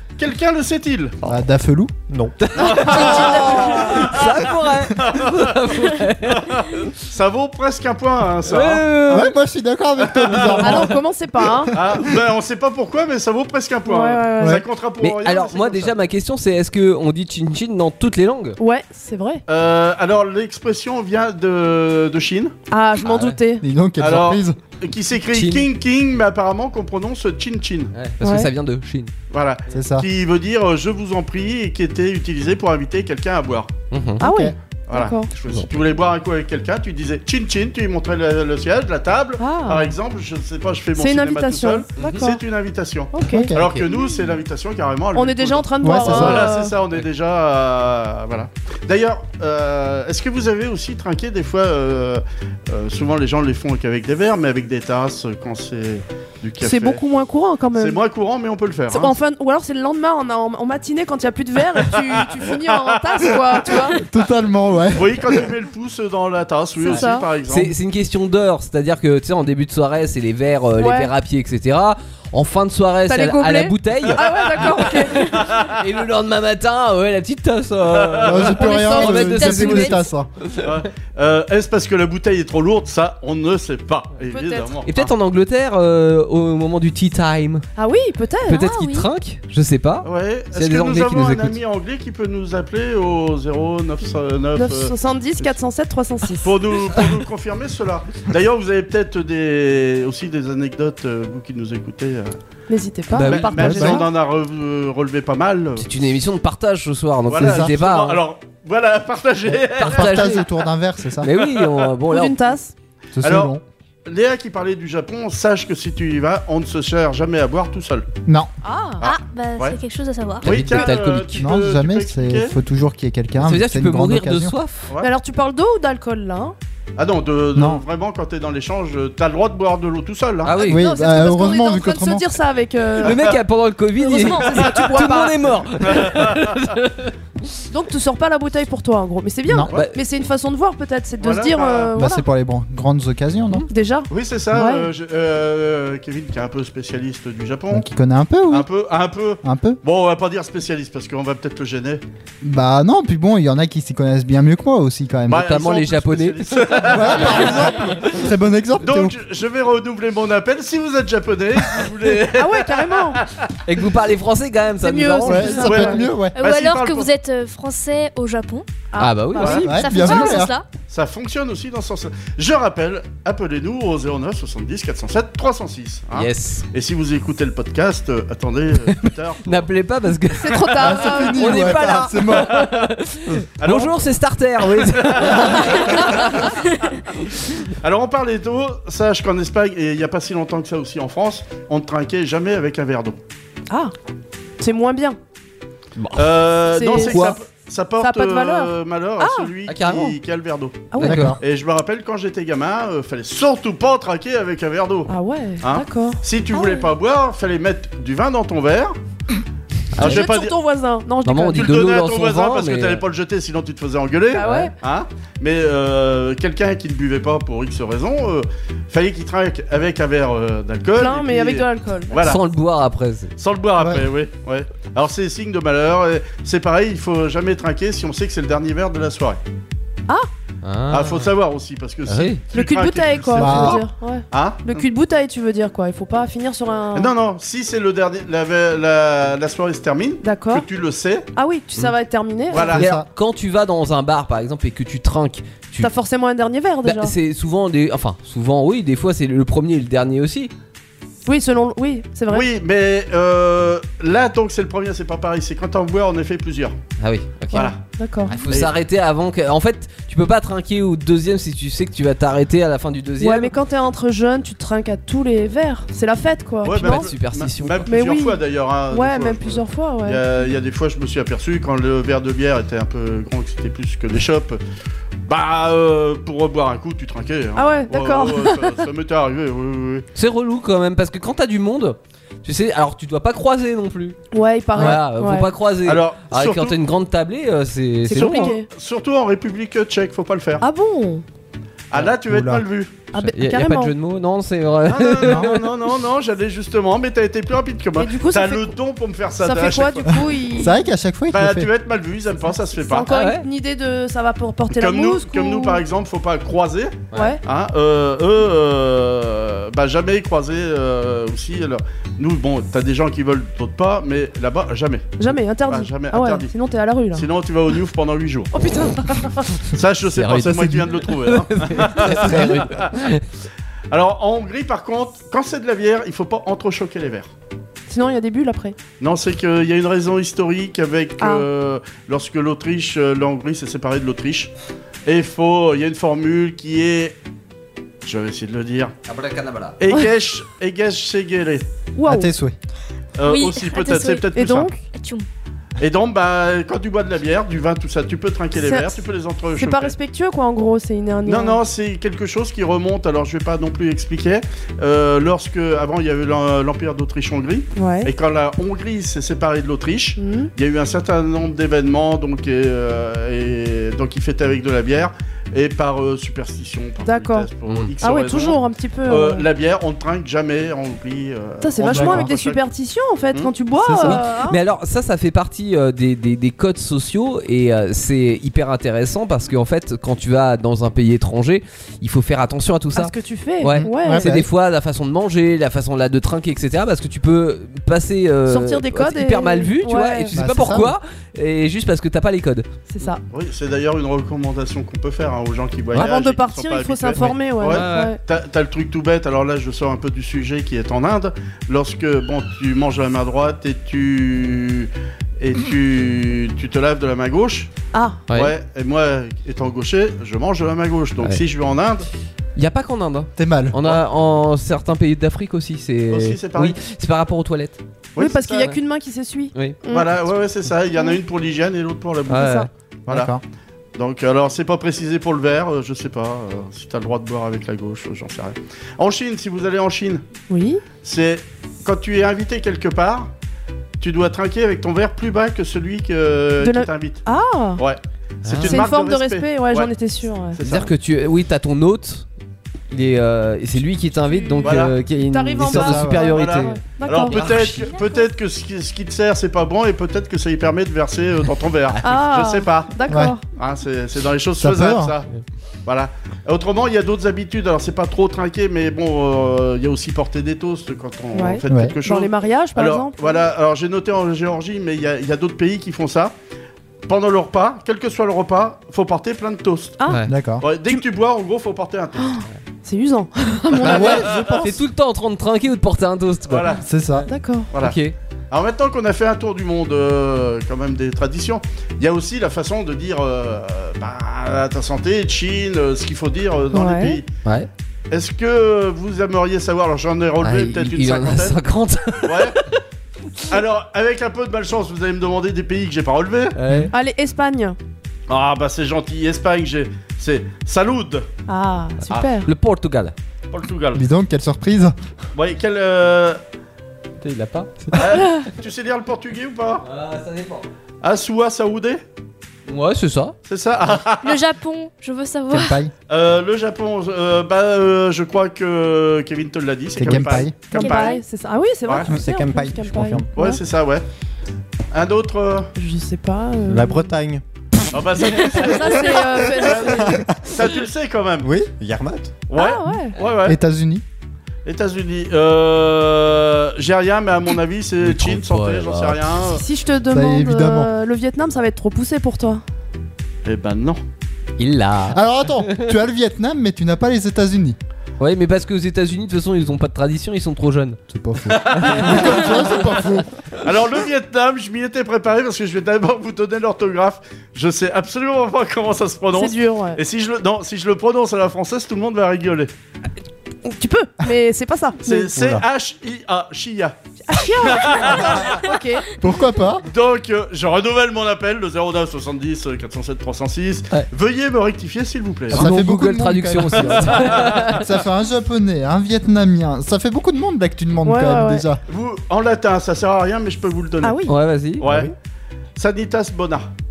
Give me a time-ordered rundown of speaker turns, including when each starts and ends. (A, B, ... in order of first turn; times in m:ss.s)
0:00.2-0:01.1 A
0:01.2-0:01.9 B
0:02.4-0:06.6 C
0:02.5-0:04.4 A
0:03.1-0:03.8 B
0:05.0-0:05.8 A
0:06.3-0:09.2 A
0:08.4-0:09.3 C
0:09.1-0:11.0 B
0:10.0-0:10.9 A
0:10.6-0:11.7 D
0:11.7-0:12.0 B
0:11.7-0:15.9 A
0:13.8-0:14.6 D
0:15.0-0:18.6 C
0:18.6-0:19.4 D
0:19.5-0:22.5 A
0:22.7-0:23.6 D
0:23.0-0:23.4 C
0:23.6-0:24.6 B
0:24.0-0:27.9 A
0:25.3-0:25.7 C
0:27.9-0:29.1 C
0:28.2-0:28.5 D
0:29.3-0:33.7 A
0:29.7-0:30.0 B
0:33.9-0:34.2 C
0:34.2-0:34.5 B
0:34.2-0:35.3 D
0:34.9-0:57.0 A
0:39.4-0:39.9 D
0:41.0-0:42.4 D
0:42.0-0:42.2 C
0:43.1-0:43.5 D
0:43.3-0:43.7 B
0:43.6-0:43.9 C
0:45.1-0:46.7 D
0:45.8-0:46.5 B
0:56.6-0:58.0 D
0:57.7-0:59.1 A
0:58.9-1:04.0 D
1:02.2-1:03.0 A
1:04.0-1:05.3 B
1:04.9-1:07.7 A
1:06.8-1:07.3 D
1:06.8-1:14.7 C
1:10.8-1:11.1 D
1:13.1-1:15.3 D
1:15.4-1:15.7 A
1:15.8-1:20.7 C
1:17.9-1:18.6 A
1:18.2-1:20.3 B
1:18.6-1:20.0 E
1:18.7-1:19.1 D
1:20.6-1:25.1 A
1:24.3-1:24.8 D
1:24.8-1:27.6 C
1:27.8-1:28.7 D
1:28.5-1:31.6 C
1:28.5-1:29.1 E
1:30.0-1:35.6 A
1:34.6-1:36.5 D
1:36.4-1:42.4 A
1:42.7-1:44.1 D
1:43.1-1:44.0 C
1:43.2-1:45.9 A
1:43.6-1:44.0 B
1:45.8-1:48.2 C
1:47.3-1:50.4 A
1:47.4-1:47.7 B
1:49.5-1:51.3 B
1:49.7-1:50.5 C
1:51.2-1:52.4 C
1:51.3-1:51.8 A
1:52.1-1:52.7 D
1:53.1-1:53.6 B
1:53.2-1:58.1 A
1:58.2-1:58.5 B
1:58.6-1:59.0 D
1:59.0-1:59.8 A
1:59.0-2:00.8 E
2:00.4-2:02.5 A
2:00.4-2:01.5 C
2:01.4-2:04.5 B
2:03.4-2:04.8 C
2:05.0-2:06.6 D
2:07.0-2:10.5 A
2:07.5-2:07.8 B
2:10.4-2:10.8 C
2:10.6-2:13.2 D
2:10.6-2:12.2 B
2:13.0-2:17.1 C
2:14.0-2:15.4 D
2:15.9-2:16.5 A
2:17.7-2:22.2 D
2:21.2-2:21.9 A
2:21.9-2:23.6 B
2:23.7-2:24.9 D
2:24.1-2:27.8 A
2:27.7-2:28.7 B
2:28.5-2:32.0 A
2:29.4-2:29.8 B
2:32.4-2:35.6 B
2:35.3-2:37.8 A
2:35.3-2:37.8 C
2:36.9-2:39.2 B
2:38.8-2:43.5 A
2:42.3-2:43.2 D
2:43.6-2:45.8 C
2:44.8-2:46.1 D
2:45.2-2:46.4 B
2:45.6-2:47.1 A
2:46.3-2:48.6 E
2:48.9-2:50.3 D
2:49.0-2:49.7 C
2:49.4-2:49.7 A
2:49.6-2:50.6 E
2:49.6-2:50.5 B
2:50.9-2:59.7 A
2:56.1-2:56.6 C
2:58.9-3:06.5 C
3:00.3-3:02.1 D
3:00.8-3:02.7 B
3:03.6-3:04.0 A
3:04.8-3:06.4 A
3:07.8-3:13.2 A
3:14.6-3:15.2 D
3:16.0-3:16.4 C
3:16.1-3:29.0 A
3:16.7-3:17.4 D
3:18.0-3:19.5 D
3:19.7-3:20.2 C
3:20.9-3:21.2 D
3:21.0-3:21.4 C
3:21.0-3:21.4 B
3:25.1-3:26.9 D
3:29.9-3:30.5 A
3:30.0-3:31.7 D
3:30.0-3:30.2 C
3:31.2-3:33.0 C
3:31.5-3:42.4 A
3:34.3-3:34.7 D
3:41.0-3:42.2 D
3:42.2-3:43.3 C
3:43.4-3:49.4 A
3:43.8-3:44.0 B
3:50.6-3:51.3 C
3:50.9-3:54.8 A
3:52.1-3:52.4 C
3:52.5-3:57.1 D
3:53.4-3:53.8 B
3:56.9-4:01.3 A
4:00.2-4:00.6 D
4:01.3-4:02.7 D
4:02.5-4:02.8 A
4:02.7-4:05.9 C
4:02.7-4:03.1 B
4:05.8-4:07.1 D
4:06.8-4:10.5 C
4:11.2-4:12.4 D
4:12.3-4:16.8 A
4:17.0-4:17.7 C
4:17.5-4:17.8 A
4:17.5-4:18.3 D
4:18.3-4:23.5 C
4:18.5-4:18.7 A
4:23.2-4:27.1 D
4:26.6-4:34.6 A
4:26.7-4:27.9 C
4:27.9-4:30.2 D
4:35.3-4:40.0 A
4:37.6-4:38.7 D
4:40.1-4:44.2 C
4:44.3-4:45.5 D
4:44.7-4:48.5 C
4:45.8-4:46.8 A
4:48.0-4:48.7 D
4:48.1-4:50.6 A
4:50.6-4:51.2 D
4:51.9-4:52.9 A
4:52.0-4:52.6 B
4:53.1-4:53.9 D
4:53.2-4:55.7 C
4:54.9-5:00.2 A
4:55.2-4:55.5 B
4:58.0-4:58.7 D
4:59.4-5:00.9 D
5:00.5-5:01.7 B
5:01.3-5:03.1 A
5:02.8-5:05.8 D
5:03.1-5:03.4 C
5:04.7-5:16.5 A
5:07.1-5:07.4 D
5:15.2-5:17.3 D
5:17.1-5:18.5 A
5:18.5-5:19.5 D
5:19.7-5:22.9 A
5:20.0-5:23.2 C
5:22.2-5:22.6 B
5:23.9-5:27.3 A
5:27.9-5:28.8 D
5:29.0-5:34.5 A
5:31.2-5:31.5 D
5:35.0-5:37.2 A
5:38.0-5:38.9 A
5:39.0-5:39.8 C
5:39.8-5:41.7 A
5:41.9-5:42.3 D
5:42.0-5:42.5 B
5:43.2-5:44.8 A
5:43.2-5:44.3 E
5:44.3-5:44.8 D
5:44.9-5:45.2 E
5:45.8-5:49.9 A
5:48.6-5:49.0 D
5:49.5-5:51.6 D
5:51.2-6:12.6 A
5:57.7-5:58.1 D
6:00.2-6:00.5 D
6:07.0-6:07.5 D
6:07.7-6:07.9 C
6:08.0-6:09.4 D
6:11.6-6:14.6 D
6:11.8-6:12.3 B
6:13.8-6:14.2 B
6:14.0-6:32.6 C
6:22.9-6:24.3 D
6:23.7-6:24.5 B
6:28.5-6:30.3 D
6:30.3-6:31.0 B
6:32.9-6:33.2 D
6:33.3-6:47.7 A
6:35.9-6:38.2 D
6:37.7-6:38.1 C
6:47.9-6:48.2 D
6:48.3-6:52.1 A
6:52.6-6:57.8 C
6:53.4-6:53.8 B
6:56.1-6:56.8 A
6:58.1-6:58.7 A
6:58.2-7:00.1 D
6:59.9-7:03.3 A
7:02.3-7:02.7 C
7:02.3-7:02.7 D
7:03.1-7:03.4 B
7:04.0-7:10.2 A
7:10.5-7:10.8 D
7:11.0-7:13.3 A
7:14.0-7:17.2 A
7:16.6-7:17.8 D
7:17.8-7:19.9 A
7:18.4-7:18.8 C
7:18.6-7:20.6 D
7:20.5-7:20.9 A
7:20.6-7:22.2 C
7:22.9-7:27.9 C
7:24.3-7:27.4 D
7:24.6-7:25.0 A
7:25.6-7:26.2 B
7:26.2-7:32.9 A
7:32.0-7:33.4 D
7:33.1-7:33.3 B
7:33.5-7:35.3 A
7:34.6-7:35.2 B
7:35.8-7:46.3 A
7:41.3-7:43.4 D
7:41.7-7:42.0 B
7:47.0-7:50.0 A
7:50.1-7:50.3 C
7:50.3-7:50.6 B
7:50.6-7:52.4 A
7:52.2-7:54.5 D
7:53.8-7:54.7 B
7:53.8-7:54.6 A
7:54.0-7:57.3 C
7:56.5-7:56.8 A
7:56.8-7:57.3 B
7:57.3-7:57.7 D
7:57.7-7:58.0 A
7:57.8-7:58.1 C
7:58.5-8:07.3 A
8:06.7-8:07.2 D
8:08.1-8:11.6 A
8:10.4-8:12.7 C
8:12.2-8:12.6 A
8:13.5-8:16.6 A
8:16.6-8:16.9 C
8:16.9-8:17.8 D
8:18.3-8:21.3 A
8:21.5-8:22.5 D
8:22.4-8:23.1 C
8:23.5-8:24.1 A
8:23.9-8:25.0 B
8:25.3-8:26.4 A
8:27.2-8:28.1 C
8:27.9-8:29.8 A
8:29.8-8:30.6 C
8:31.0-8:32.0 A
8:32.7-8:33.3 C
8:33.4-8:34.4 A
8:34.2-8:35.8 E
8:35.5-8:35.9 B
8:36.1-8:41.2 A
8:40.0-8:40.6 B
8:40.7-8:41.2 E
8:40.7-8:43.6 D
8:42.0-8:43.3 F
8:43.4-8:44.0 A
8:44.9-8:45.7 A
8:45.8-8:47.1 D
8:46.7-8:47.4 F
8:47.9-8:51.5 A
8:48.4-8:50.2 D
8:51.4-8:52.4 F
8:52.5-8:53.6 A
8:52.5-8:53.2 D
8:53.4-8:54.0 B
8:54.6-8:59.6 A
8:58.0-8:59.4 C
8:59.5-9:02.6 D
9:00.1-9:00.9 B
9:03.4-9:04.0 A
9:04.6-9:05.9 C
9:05.1-9:07.8 B
9:08.2-9:11.0 C
9:11.1-9:13.3 B
9:11.5-9:12.7 A
9:11.7-9:12.6 C
9:13.6-9:22.7 A
9:19.3-9:20.0 D
9:23.6-9:25.3 D
9:25.0-9:27.0 A
9:27.3-9:29.0 D
9:27.6-9:28.6 A
9:29.2-9:29.8 B
9:29.8-9:35.8 A
9:35.5-9:37.8 C
9:35.5-9:41.8 B
9:37.2-9:37.6 A
9:41.0-9:41.6 D
9:41.9-9:44.3 A
9:44.0-9:44.3 D
9:44.3-9:44.8 C
9:44.8-9:45.1 A
9:44.8-9:45.1 F
9:45.8-9:46.7 A